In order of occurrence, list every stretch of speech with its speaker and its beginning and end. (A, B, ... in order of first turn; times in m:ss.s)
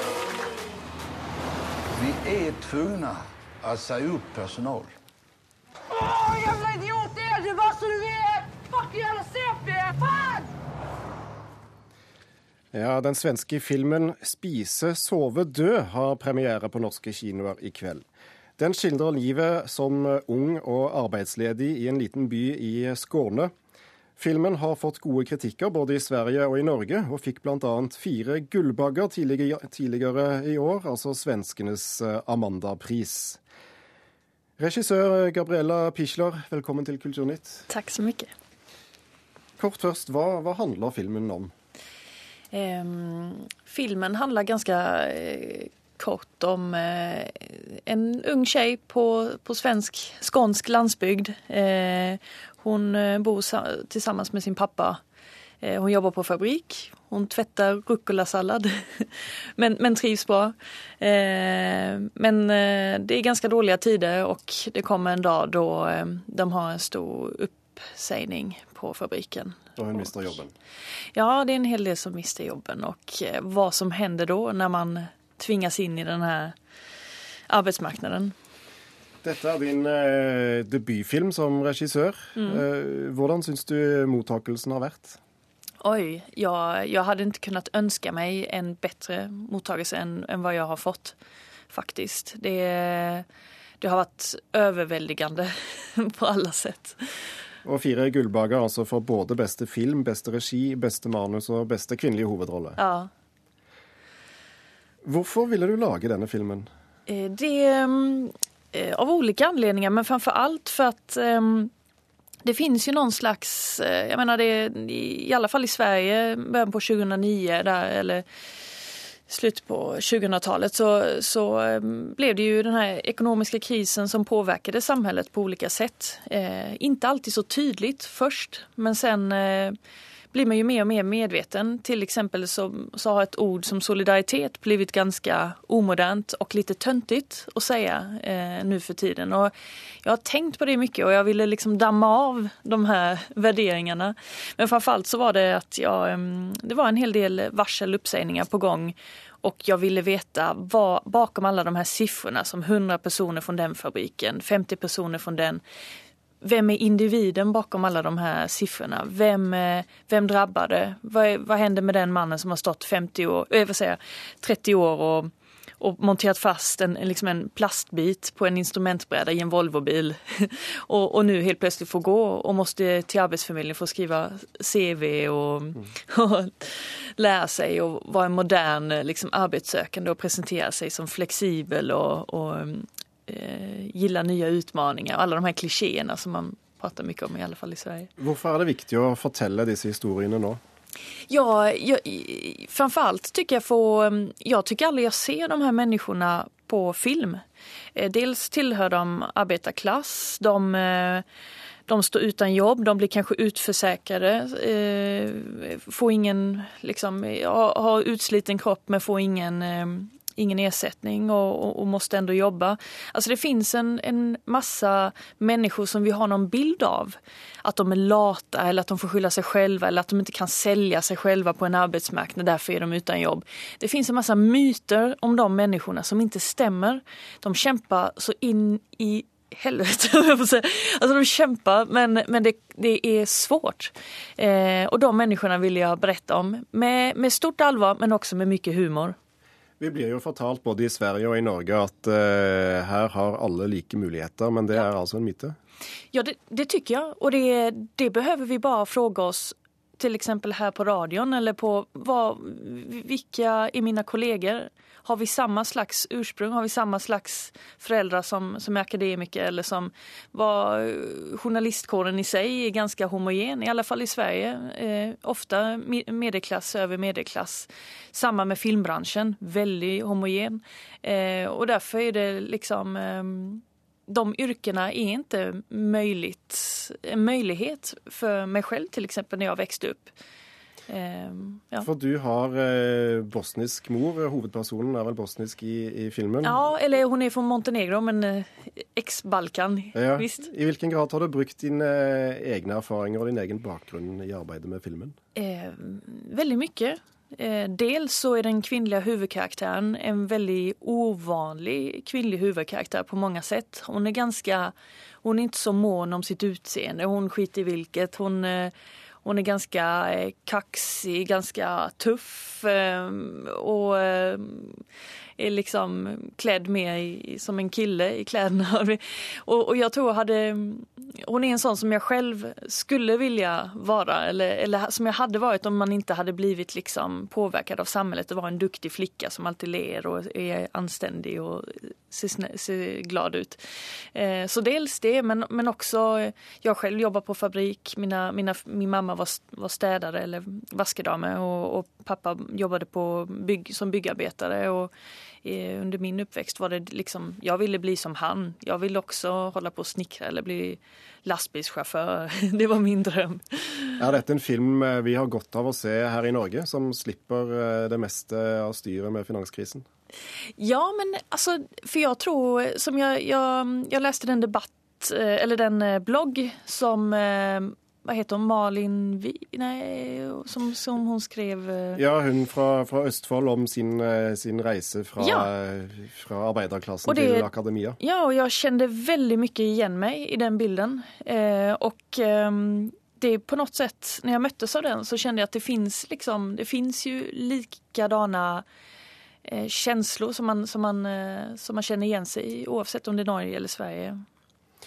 0:01.9-0:04.9 A
0:06.1-0:08.1 B
0:08.7-0:10.1 B
0:12.7-0:18.0 C
0:18.6-0:23.5 C
0:24.2-0:33.4 C
0:34.6-0:37.6 C
0:37.7-0:38.3 D
0:39.6-0:41.5 C
0:42.5-0:55.0 D
0:55.6-1:10.1 D
1:09.8-1:10.5 C
1:11.1-1:16.5 D
1:17.5-1:18.3 D
1:19.2-1:25.2 C
1:25.8-1:31.2 D
1:31.7-1:33.2 D
1:33.8-1:37.0 D
1:37.6-1:42.8 C
1:42.8-1:43.1 D
1:45.0-1:46.7 C
1:47.1-1:51.7 D
1:52.4-1:58.2 D
1:59.3-2:09.7 D
2:10.3-2:19.5 D
2:20.0-2:35.6 D
2:36.4-3:08.1 D
3:08.2-3:10.6 C
3:11.3-3:17.4 D
3:17.9-3:21.2 D
3:21.9-3:59.2 D
3:59.8-4:05.6 C
4:06.1-4:40.1 D
4:40.9-4:41.9 D
4:41.8-4:46.6 C
4:46.4-4:50.5 D
4:49.9-4:55.1 C
4:55.3-5:14.8 D
5:15.4-5:44.9 D
5:45.4-5:54.0 D
5:54.0-5:59.8 C
6:00.6-6:12.0 D
6:11.9-6:18.0 C
6:15.2-6:15.5 D
6:17.0-6:28.6 D
6:29.4-6:34.2 D